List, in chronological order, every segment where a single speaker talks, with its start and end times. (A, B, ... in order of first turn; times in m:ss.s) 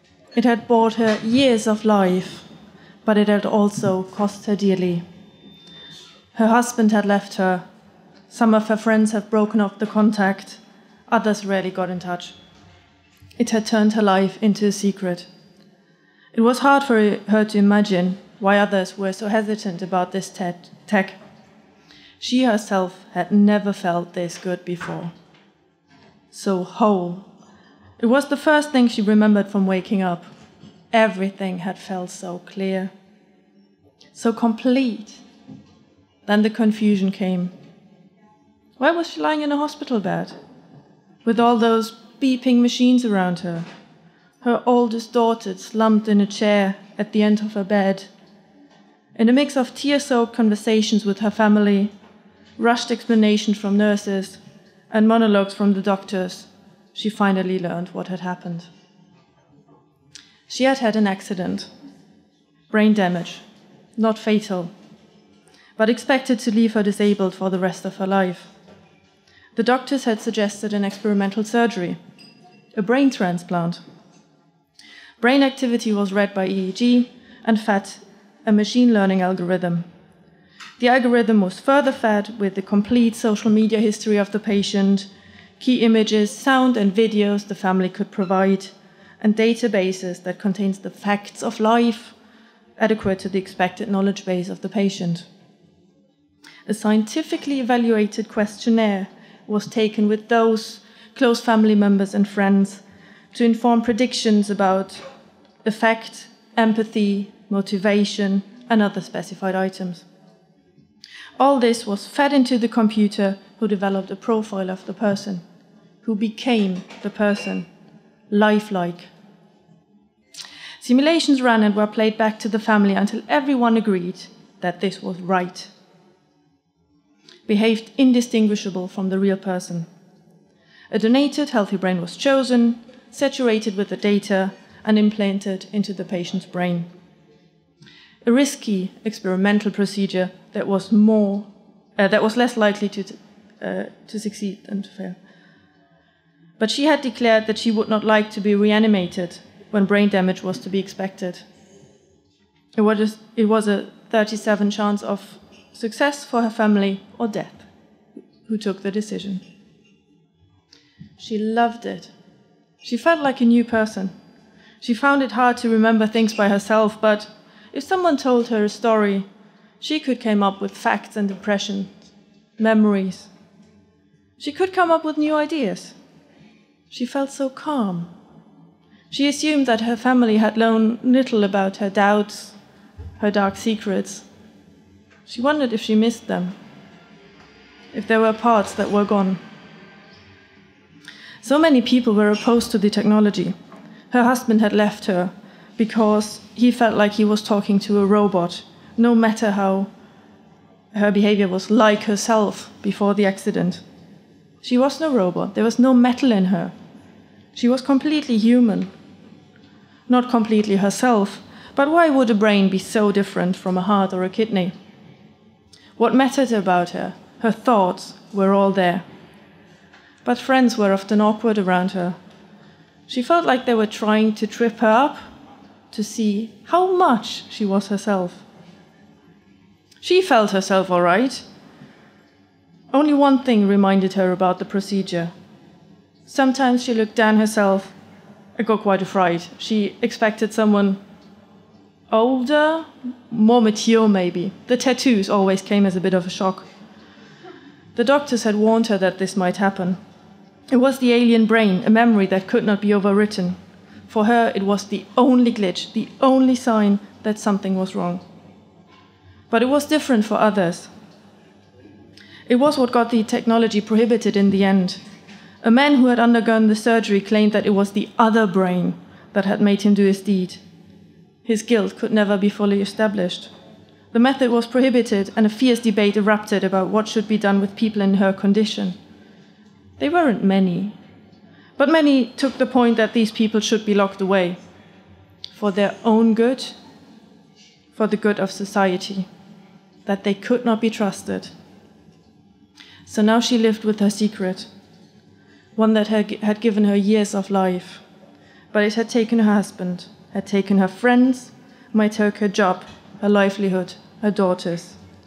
0:00.3-0:02.5 A
0:03.0-0:05.0 A
0:06.4-0:07.6 A
0:08.3-0:12.4 A
0:13.4-0:15.3 A
0:16.3-0:21.2 A
0:22.2-0:25.1 A
0:26.3-0:27.3 A
0:28.0-0:30.3 A
0:30.9-0:32.9 A
0:34.1-0:35.2 A
0:36.3-0:37.5 A
0:38.8-0:40.4 A
0:41.2-0:43.7 A
0:44.4-0:48.1 A
0:49.2-0:51.9 A
0:52.6-0:54.4 A
0:54.9-0:58.7 A
1:00.5-1:01.7 A
1:02.7-1:03.4 A
1:04.0-1:04.7 A
1:05.8-1:08.5 A
1:09.6-1:12.0 A
1:12.8-1:13.8 A
1:15.2-1:19.9 A
1:20.8-1:32.2 A
1:32.8-1:35.3 A
1:36.7-1:45.0 A
1:45.6-1:50.1 A
1:51.4-1:55.4 A
1:56.0-1:57.7 A
1:58.3-1:59.1 A
2:00.8-2:05.7 A
2:07.5-2:09.9 A
2:10.9-2:16.9 A
2:18.2-2:25.2 A
2:26.6-2:31.4 A
2:32.8-2:37.7 A
2:38.5-2:39.4 A
2:41.2-2:42.1 A
2:42.8-2:44.1 A
2:44.8-2:49.3 A
2:49.8-2:52.0 A
2:52.6-2:53.3 A
2:54.4-2:56.0 A
2:56.9-2:58.1 A
2:59.1-3:02.6 A
3:03.2-3:04.3 A
3:05.3-3:06.6 A
3:07.9-3:09.4 A
3:11.4-3:13.6 A
3:14.1-3:19.9 A
3:20.9-3:23.8 A
3:24.6-3:26.7 A
3:27.5-3:28.9 A
3:30.1-3:34.7 A
3:36.0-3:39.0 A
3:40.2-3:42.2 A
3:43.1-3:45.2 A
3:45.9-3:48.5 A
3:50.0-3:51.4 A
3:52.9-3:55.3 A
3:56.3-3:57.9 A
3:58.6-4:01.0 A
4:02.1-4:06.7 A
4:08.0-4:10.0 A
4:10.7-4:18.2 A
4:19.5-4:20.9 A
4:22.5-4:25.0 A
4:25.6-4:30.6 A
4:31.4-4:33.5 A
4:34.1-4:39.0 A
4:40.0-4:41.0 A
4:41.8-4:44.6 A
4:45.5-4:46.8 A
4:47.9-4:49.3 A
4:50.1-4:51.5 A
4:53.0-4:54.7 A
4:55.8-4:58.0 A
4:58.7-5:05.0 A